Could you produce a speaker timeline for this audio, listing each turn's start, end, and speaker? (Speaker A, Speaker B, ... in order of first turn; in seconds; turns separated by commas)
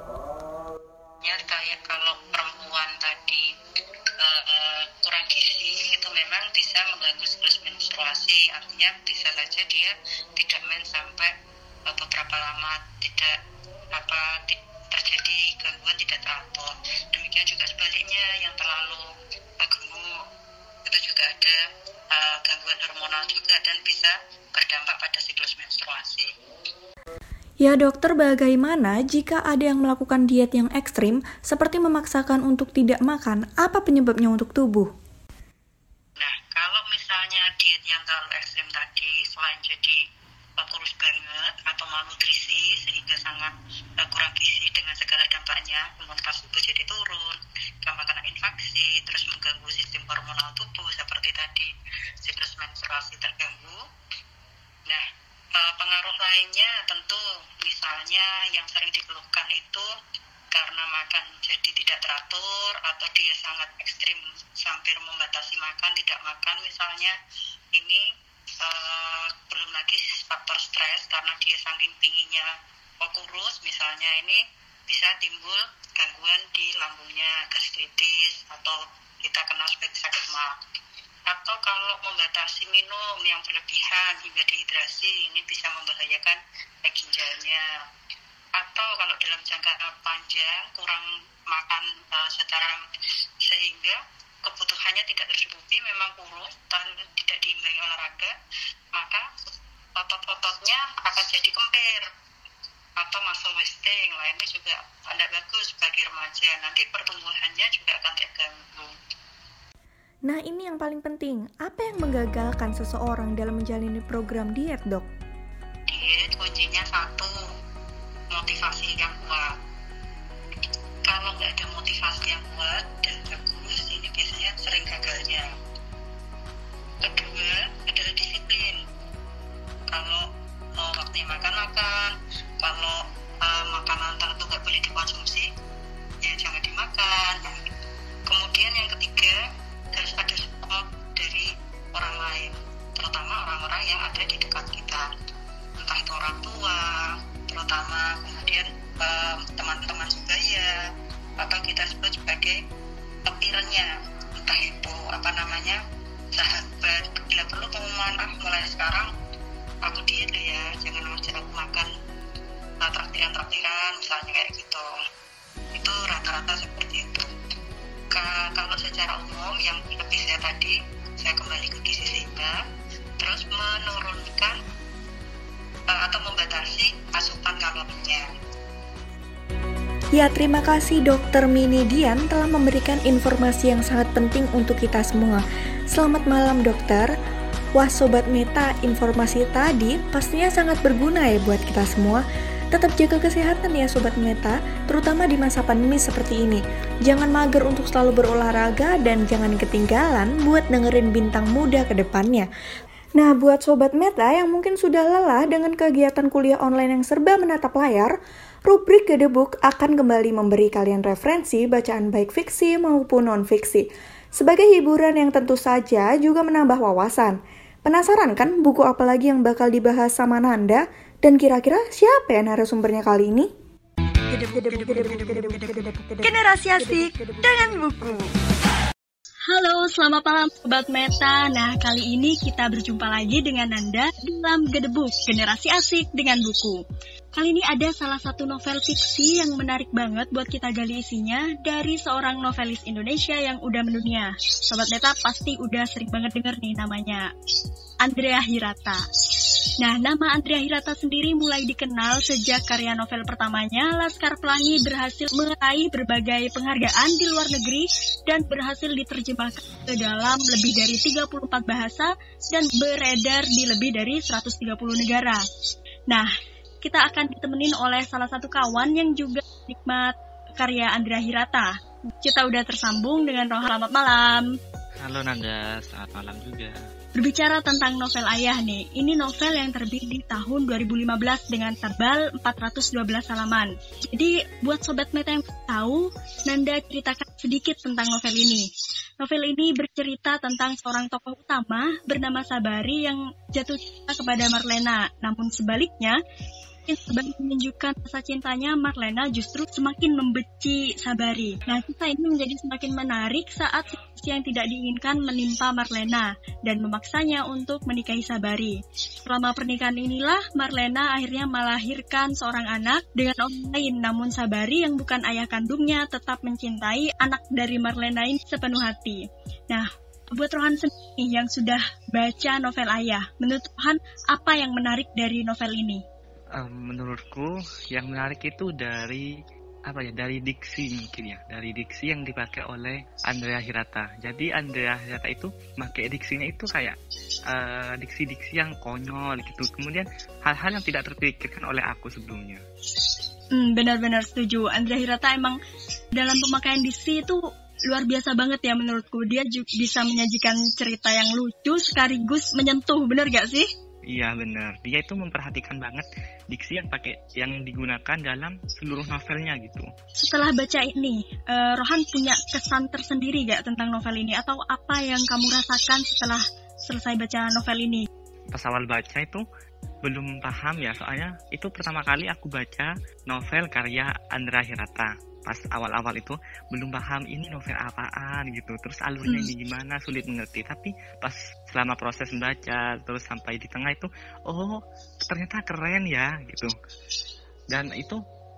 Speaker A: 1.2-3.5, Speaker A: 4.2-11.3, Speaker A: 11.9-13.3, Speaker A: 13.9-19.1, Speaker A: 19.6-20.2, Speaker A: 20.9-21.6, Speaker A: 22.1-26.3, Speaker B: 27.6-34.9, Speaker A: 36.2-40.0, Speaker A: 40.6-51.7, Speaker A: 52.2-53.8, Speaker A: 55.6-59.9, Speaker A: 60.5-67.2, Speaker A: 67.7-68.0, Speaker A: 68.6-72.5, Speaker A: 73.0-74.4, Speaker A: 74.9-80.5, Speaker A: 81.3-87.6, Speaker A: 88.6-92.8, Speaker A: 93.5-98.3, Speaker A: 99.0-99.3, Speaker A: 100.0-102.1, Speaker A: 103.0-108.9, Speaker B: 110.3-115.1, Speaker A: 115.9-117.3, Speaker A: 118.3-119.5, Speaker A: 121.1-125.5, Speaker A: 127.0-128.8, Speaker A: 129.9-130.2, Speaker A: 130.8-135.5, Speaker A: 136.2-137.6, Speaker A: 138.3-139.3, Speaker A: 139.9-145.1, Speaker A: 145.8-150.7, Speaker A: 151.4-152.6, Speaker A: 153.3-155.8, Speaker A: 156.3-159.1, Speaker A: 159.8-161.9, Speaker A: 162.8-164.9, Speaker A: 165.8-167.3, Speaker A: 168.1-172.6, Speaker A: 173.2-174.5, Speaker A: 175.9-178.2, Speaker B: 180.1-187.2, Speaker B: 187.8-202.5, Speaker B: 203.2-208.2, Speaker B: 208.7-223.5, Speaker B: 224.5-225.6, Speaker B: 226.2-227.8, Speaker C: 229.5-236.8, Speaker C: 237.4-247.3, Speaker C: 248.0-249.0, Speaker C: 249.8-265.4, Speaker C: 266.8-274.5, Speaker D: 275.0-276.8, Speaker C: 277.2-288.7, Speaker C: 289.2-296.2, Speaker C: 296.9-326.0, Speaker D: 326.6-329.3, Speaker D: 329.9-337.0, Speaker D: 337.5-342.6, Speaker C: 343.6-345.6, Speaker C: 346.2-353.7, Speaker D: 354.1-359.9, Speaker C: 360.2-368.1, Speaker D: 368.5-369.4, Speaker D: 370.1-386.7, Speaker D: 387.7-388.2